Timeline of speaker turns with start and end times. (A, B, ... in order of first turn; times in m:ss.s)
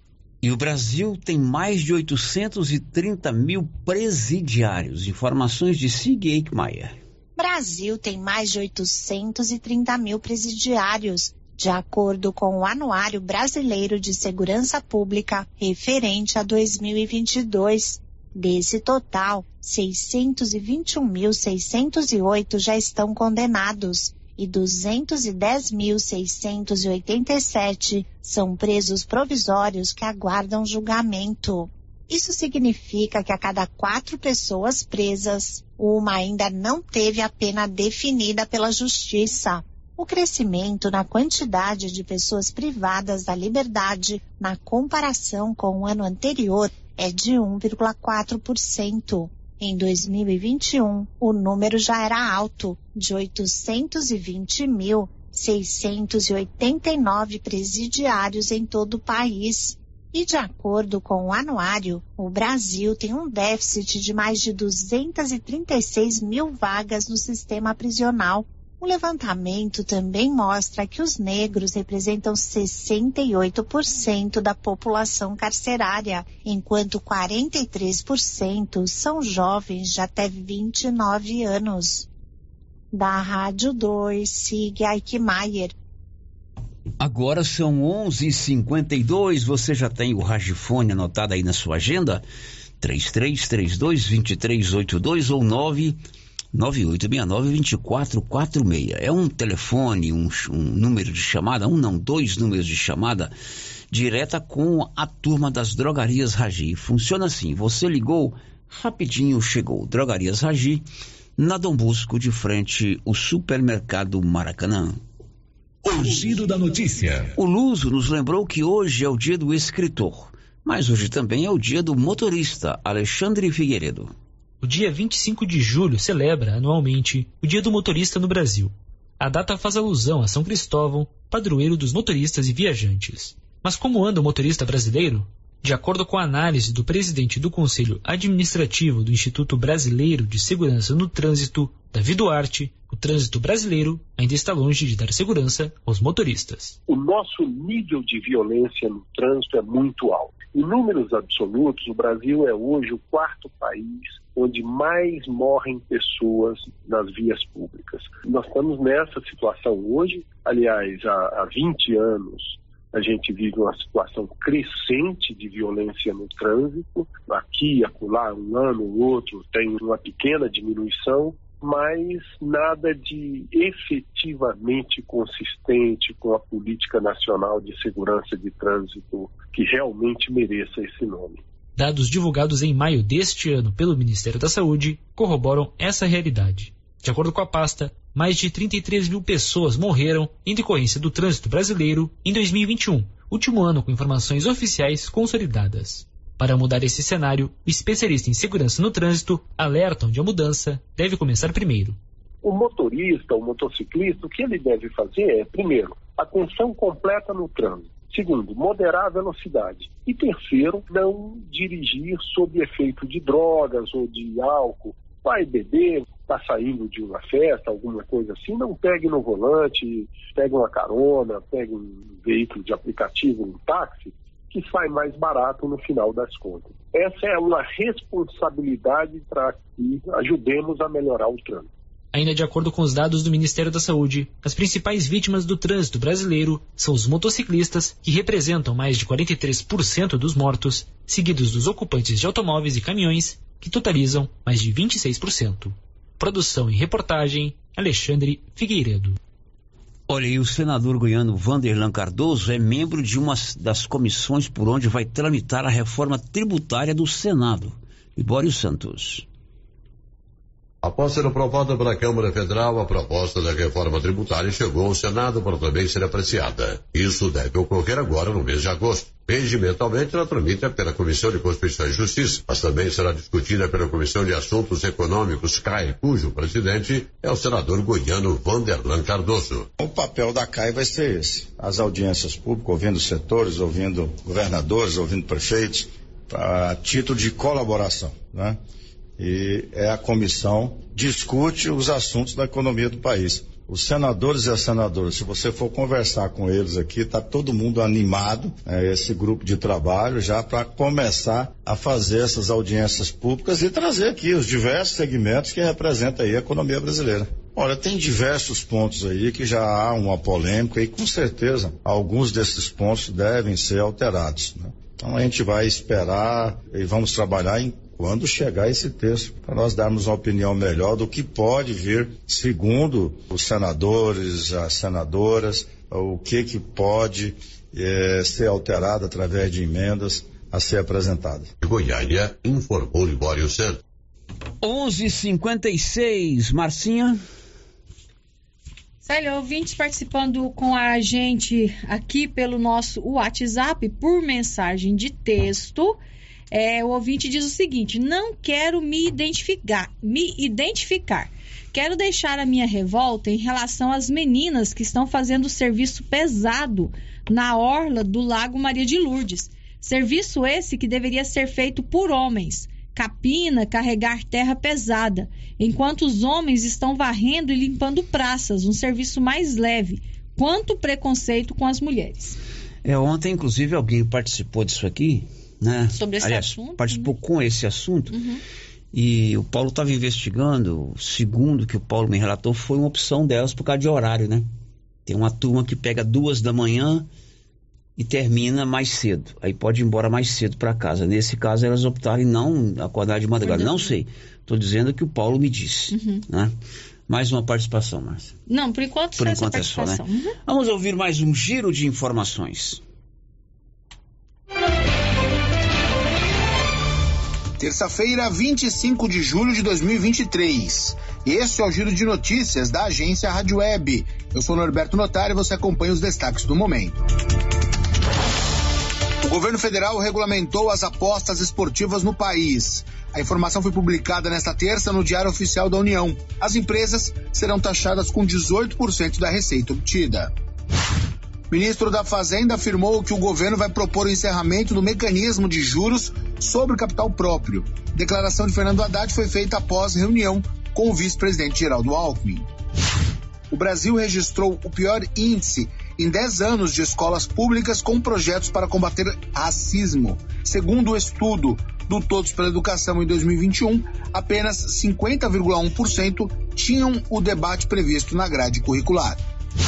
0:00.4-0:07.0 A
0:07.4-1:22.1 B
1:22.9-1:25.7 B
1:27.0-1:32.2 A
1:32.8-1:36.0 A
1:36.5-1:43.3 A
1:43.9-1:50.8 A
1:51.4-1:55.0 A
1:57.3-2:04.1 A
2:04.6-2:26.8 C
2:26.9-3:01.4 D
3:01.8-3:22.0 C
3:22.4-3:51.7 D
3:52.1-4:09.2 C
4:10.1-4:19.2 A
4:20.8-4:39.7 E
4:39.8-4:48.6 F
4:49.2-5:31.5 F
5:31.6-5:33.8 E
5:34.6-5:37.2 A
5:39.0-5:46.0 G
5:46.5-6:12.4 G
6:12.8-6:18.2 A
6:16.0-6:17.1 G
6:18.9-6:24.5 A
6:25.0-6:27.1 A
6:28.0-6:36.5 A
6:37.1-6:38.3 A
6:38.5-6:40.3 G
6:39.2-6:42.8 A
6:47.6-6:57.0 H
6:59.2-7:10.3 H
7:11.5-7:22.5 H
7:23.5-7:39.2 H